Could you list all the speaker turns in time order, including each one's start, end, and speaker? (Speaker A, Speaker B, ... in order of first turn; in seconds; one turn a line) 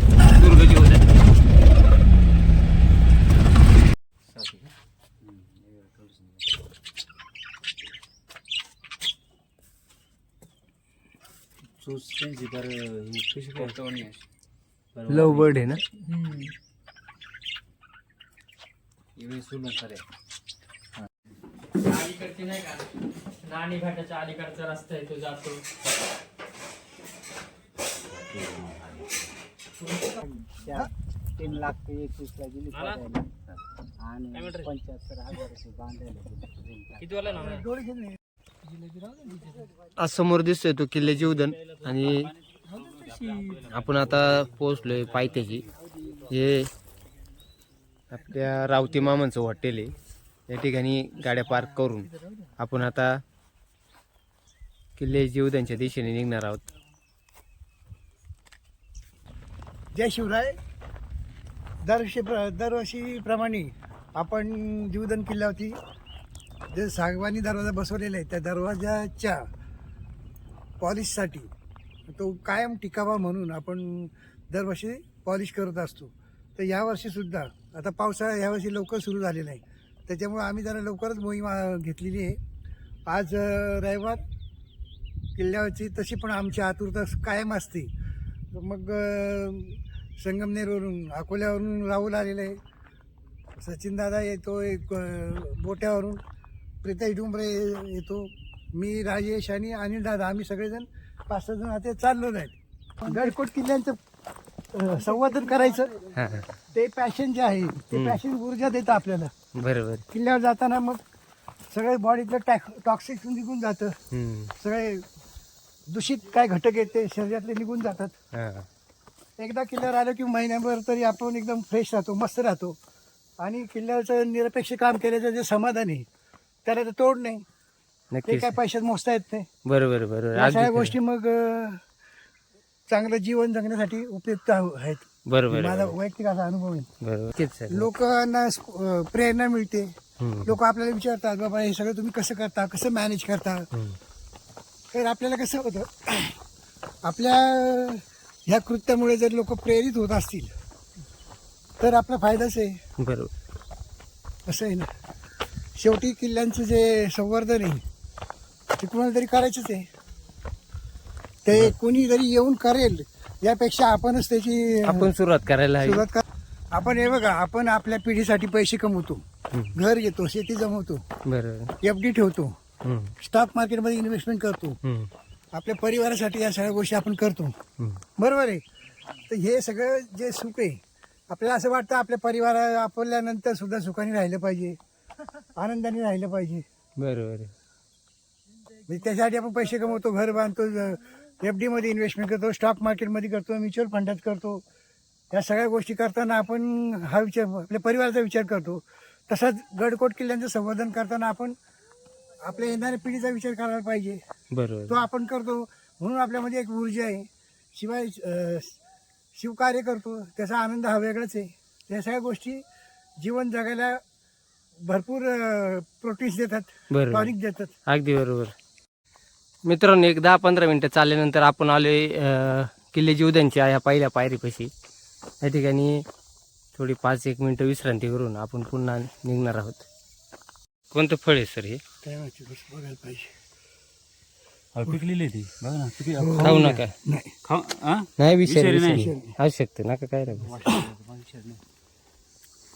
Speaker A: 0.3-1.1
Speaker B: 11.8-13.6
Speaker C: 13.5-13.9
Speaker A: 15.1-15.8
Speaker B: 19.2-20.0
Speaker C: 21.9-22.9
Speaker C: 23.4-25.6
Speaker D: 28.1-29.2
Speaker B: 30.2-33.3
Speaker C: 32.7-33.0
Speaker B: 34.0-37.3
Speaker C: 34.3-34.7
Speaker C: 37.0-37.6
Speaker E: 37.4-38.2
Speaker A: 40.0-42.3
Speaker D: 41.7-45.6
Speaker A: 43.7-45.7
Speaker A: 46.3-46.7
Speaker A: 48.1-49.9
Speaker A: 50.5-53.2
Speaker A: 55.0-56.6
Speaker E: 59.9-60.5
Speaker E: 61.8-65.8
Speaker E: 66.7-69.4
Speaker E: 70.8-71.5
Speaker E: 72.1-82.4
Speaker E: 83.1-84.2
Speaker E: 85.4-87.9
Speaker E: 88.5-92.6
Speaker E: 93.6-96.2
Speaker E: 96.8-104.0
Speaker E: 104.7-105.9
Speaker A: 106.1-106.5
Speaker E: 106.7-109.3
Speaker A: 107.9-108.2
Speaker A: 109.5-110.0
Speaker E: 110.1-111.0
Speaker E: 111.7-114.0
Speaker A: 114.1-114.5
Speaker E: 114.6-115.0
Speaker E: 115.9-118.1
Speaker A: 118.3-118.7
Speaker E: 119.4-122.8
Speaker E: 123.4-126.0
Speaker E: 126.7-127.4
Speaker A: 128.1-128.5
Speaker E: 128.2-129.5
Speaker A: 129.6-130.9
Speaker E: 130.3-131.8
Speaker E: 132.9-136.9
Speaker A: 135.3-135.9
Speaker A: 137.0-137.9
Speaker E: 137.7-143.7
Speaker A: 140.2-140.5
Speaker A: 143.7-144.0
Speaker E: 144.9-146.4
Speaker E: 147.0-150.5
Speaker E: 151.8-152.8
Speaker A: 153.0-153.3
Speaker E: 154.4-154.9
Speaker E: 155.8-157.8
Speaker E: 158.8-159.9
Speaker E: 161.4-165.1
Speaker A: 164.8-166.0
Speaker E: 165.8-169.2
Speaker E: 169.7-171.0
Speaker A: 171.3-171.7
Speaker E: 171.8-172.6
Speaker A: 172.8-173.1
Speaker E: 173.2-174.8
Speaker A: 174.8-175.1
Speaker E: 175.5-177.5
Speaker E: 178.2-178.6
Speaker E: 179.3-184.8
Speaker E: 185.6-186.6
Speaker A: 187.0-187.5
Speaker E: 188.9-194.6
Speaker E: 195.3-201.5
Speaker E: 202.4-204.2
Speaker A: 204.5-205.0
Speaker E: 204.9-208.8
Speaker E: 209.3-212.6
Speaker E: 213.2-214.0
Speaker E: 214.8-217.7
Speaker A: 216.9-217.3
Speaker A: 217.9-218.5
Speaker A: 219.7-224.7
Speaker A: 225.4-226.0
Speaker A: 226.7-229.8
Speaker A: 230.9-231.8
Speaker E: 232.0-233.3
Speaker D: 234.7-236.8
Speaker E: 236.2-237.3
Speaker A: 236.4-236.9
Speaker D: 237.4-239.1
Speaker A: 238.2-240.7
Speaker E: 238.9-239.3
Speaker D: 240.7-241.4